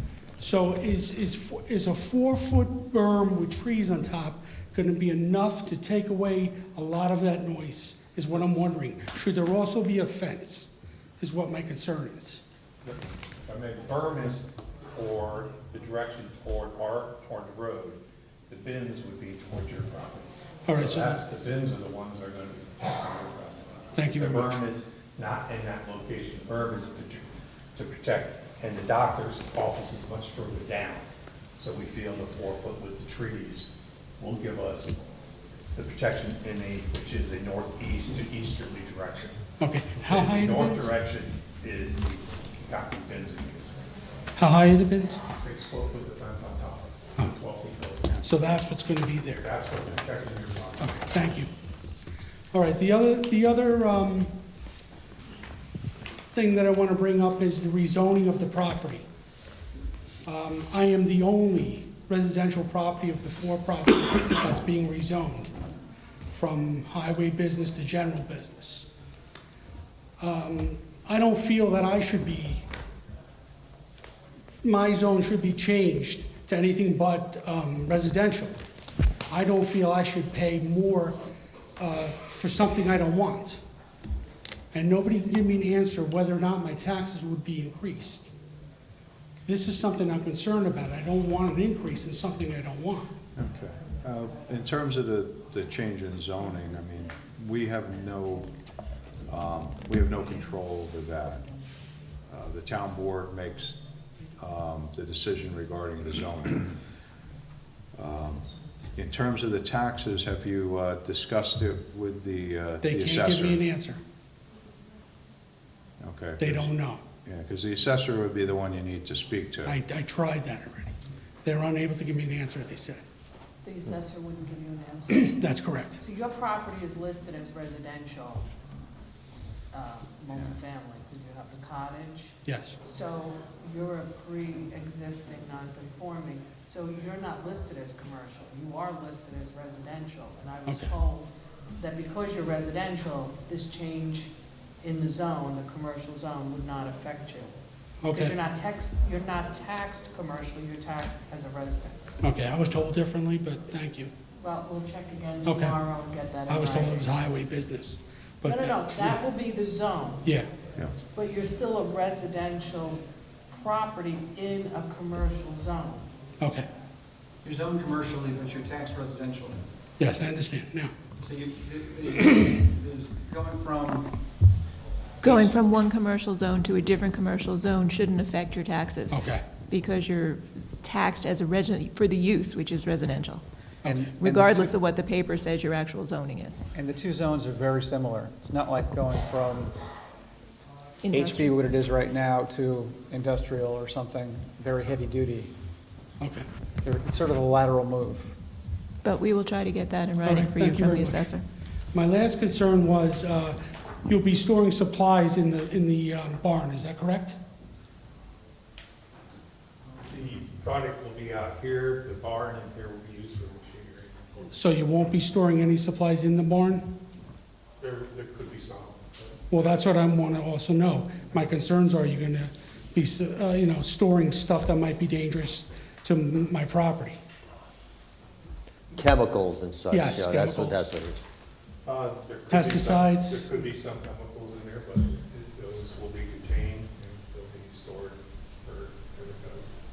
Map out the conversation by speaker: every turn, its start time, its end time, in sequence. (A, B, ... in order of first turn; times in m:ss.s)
0:00.4-0:12.4 A
0:12.8-0:27.2 B
0:20.6-0:21.2 A
0:23.9-0:24.6 A
0:27.7-0:31.0 B
0:31.6-0:33.7 B
0:34.2-0:35.0 B
0:35.7-0:39.4 B
0:39.6-0:40.9 A
0:40.0-0:43.9 B
0:44.4-0:45.2 A
0:45.3-0:48.2 B
0:48.2-0:49.4 A
0:49.4-0:51.0 B
0:50.8-0:51.5 A
0:52.5-0:54.3 A
0:56.3-0:59.0 A
1:00.2-1:05.5 A
1:06.3-1:08.9 A
1:10.2-1:12.6 A
1:14.6-1:18.6 A
1:19.3-1:21.2 A
1:21.8-1:23.6 A
1:24.7-1:28.3 A
1:29.4-1:33.1 A
1:33.3-1:38.5 C
1:39.3-1:41.4 C
1:42.3-1:43.8 C
1:44.4-1:46.7 C
1:47.9-1:53.6 C
1:52.8-1:54.0 A
1:56.0-1:56.7 C
1:56.4-1:57.0 A
1:57.2-1:59.8 C
1:59.6-2:00.9 A
2:01.4-2:03.0 A
2:03.6-2:05.4 D
2:05.1-2:06.0 A
2:06.0-2:08.4 D
2:09.7-2:24.3 D
2:12.4-2:12.8 A
2:20.7-2:20.9 A
2:24.8-2:27.6 D
2:28.0-2:28.3 A
2:28.1-2:32.2 D
2:32.2-2:34.1 A
2:34.4-2:37.1 D
2:35.4-2:35.8 A
2:36.5-2:39.2 A
2:38.4-2:40.3 D
2:41.1-2:46.1 D
2:46.4-2:46.6 A
2:47.4-2:49.6 E
2:50.0-2:50.9 A
2:51.2-2:54.1 E
2:55.2-3:03.4 F
2:59.1-2:59.4 A
3:03.8-3:04.7 E
3:03.8-3:04.1 A
3:04.1-3:06.6 F
3:06.7-3:09.7 E
3:11.0-3:11.6 F
3:11.1-3:15.5 E
3:16.2-3:16.5 A
3:16.8-3:18.3 E
3:19.0-3:21.4 F
3:20.2-3:21.3 A
3:21.9-3:27.4 A
3:30.0-3:34.6 B
3:34.5-3:36.9 A
3:37.8-3:39.4 B
3:39.5-3:47.2 A
3:49.0-3:51.2 G
3:49.9-3:50.8 A
3:51.8-3:59.7 B
3:52.5-3:53.6 A